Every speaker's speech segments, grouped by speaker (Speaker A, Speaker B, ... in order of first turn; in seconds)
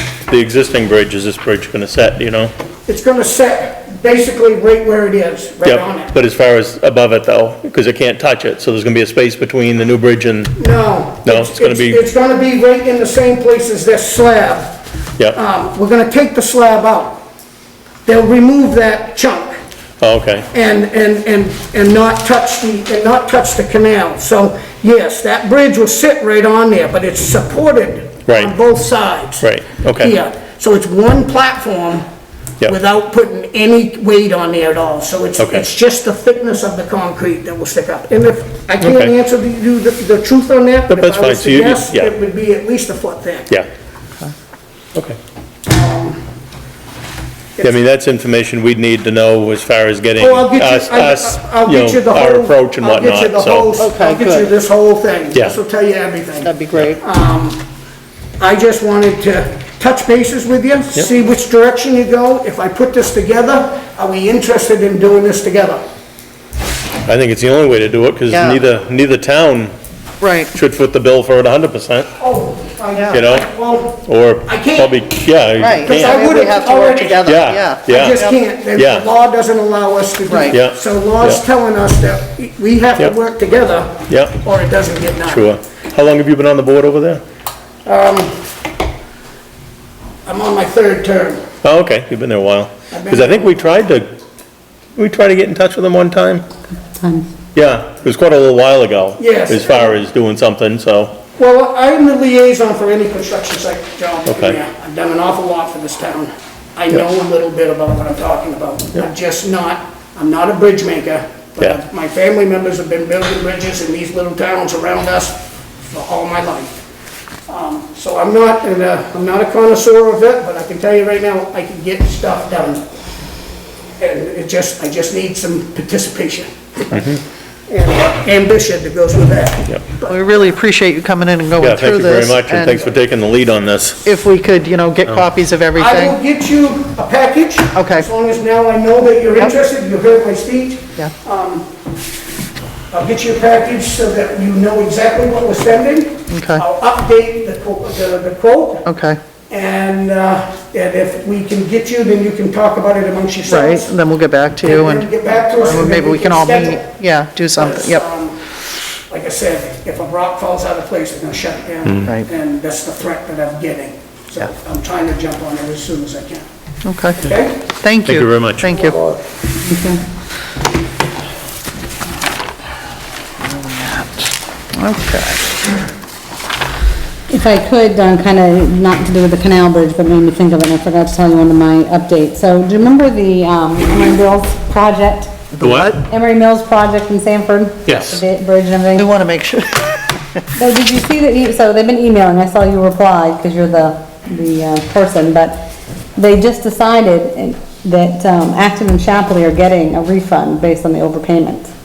Speaker A: 0.3-2.5, 5.6-10.6, 11.2-12.0, 20.0-20.5, 28.2-28.5, 29.4-30.1, 35.4-35.6, 38.8-39.1, 40.9-42.1, 47.6-53.7, 67.1-69.7, 70.5-72.1, 73.1-73.5, 74.0-76.2, 77.2-78.2, 78.8-79.0, 80.5-81.4, 84.1-84.3, 85.3-87.2, 91.6-94.1, 95.0-96.4, 97.5-101.2, 104.3-104.6, 126.9-127.2, 131.6-134.0, 168.0-168.8, 185.6-186.0, 187.8-188.2
Speaker B: 2.9-6.1, 10.6-14.8, 15.3-17.2, 18.1-19.6, 20.5-32.0, 32.6-43.5, 45.7-46.2, 50.2-57.6, 58.4-65.8, 72.2-75.0, 75.8-77.2, 77.9-85.4, 87.8-88.4, 90.2-91.4, 92.9-93.7, 99.2-99.9, 101.4-116.8, 117.5-122.8, 124.0-127.0, 127.7-130.1, 135.8-141.7, 142.9-148.8, 149.5-153.9, 154.6-156.9, 157.6-158.4, 159.1-166.4, 167.2-167.7
Speaker C: 53.8-54.5, 56.4-57.0, 68.3-68.6, 70.2-70.5, 75.6-78.3, 80.3-80.5, 130.1-132.8, 134.0-136.2, 137.7-138.1, 146.3-146.6, 148.8-149.2, 153.4-158.0, 166.8-169.0, 173.4-175.5, 185.6-186.0, 188.9-190.4
Speaker D: 96.8-97.3, 169.6-170.0, 177.3-189.1, 190.6-201.7